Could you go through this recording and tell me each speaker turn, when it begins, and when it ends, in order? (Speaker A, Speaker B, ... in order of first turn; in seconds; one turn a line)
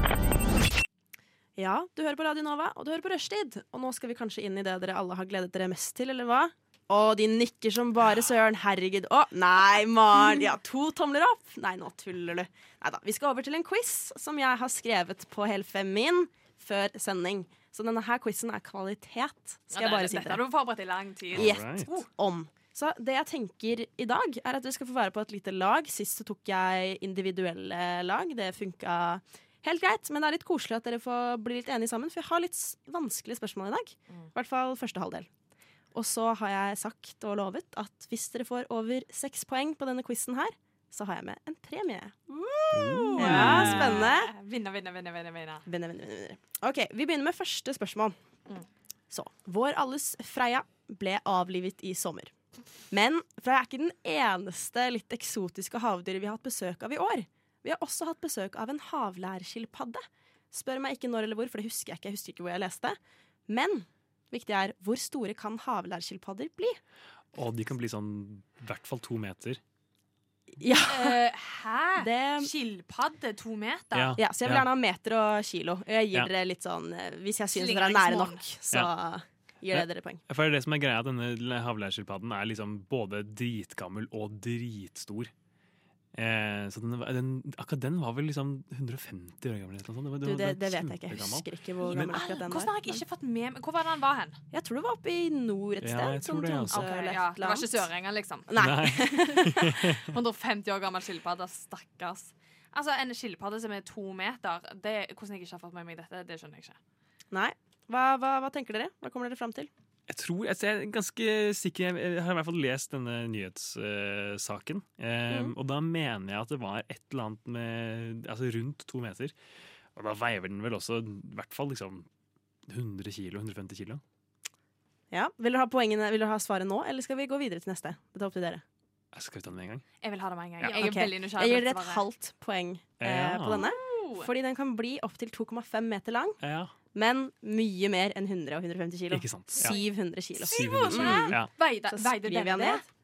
Speaker A: 1.6-20.4
Speaker B: 19.7-22.1
Speaker C: 21.3-21.9
Speaker A: 21.4-35.3
Speaker A: 35.9-44.3
Speaker C: 42.7-44.0
Speaker B: 43.1-45.6
Speaker A: 45.7-48.1
Speaker A: 49.1-52.3
Speaker A: 52.9-63.0
Speaker A: 63.5-66.8
Speaker C: 67.3-69.6
Speaker A: 70.6-71.2
Speaker B: 70.7-74.2
Speaker A: 72.0-72.5
Speaker C: 73.9-74.7
Speaker A: 74.2-80.2
Speaker B: 77.5-78.5
Speaker C: 79.7-85.3
Speaker C: 86.2-92.1
Speaker A: 90.2-93.0
Speaker B: 91.8-94.4
Speaker A: 94.5-97.9
Speaker C: 95.8-96.9
Speaker B: 96.7-98.5
Speaker A: 98.5-99.8
Speaker C: 98.6-100.1
Speaker B: 100.0-106.8
Speaker A: 107.3-109.7
Speaker C: 110.1-119.3
Speaker A: 115.3-115.5
Speaker C: 120.0-122.1
Speaker C: 122.7-124.0
Speaker A: 125.1-128.6
Speaker C: 129.1-129.8
Speaker B: 130.0-132.1
Speaker A: 130.7-136.4
Speaker C: 133.0-133.6
Speaker B: 133.5-134.3
Speaker C: 136.4-136.7
Speaker A: 136.9-142.8
Speaker C: 139.1-139.8
Speaker B: 140.4-142.9
Speaker C: 140.5-141.5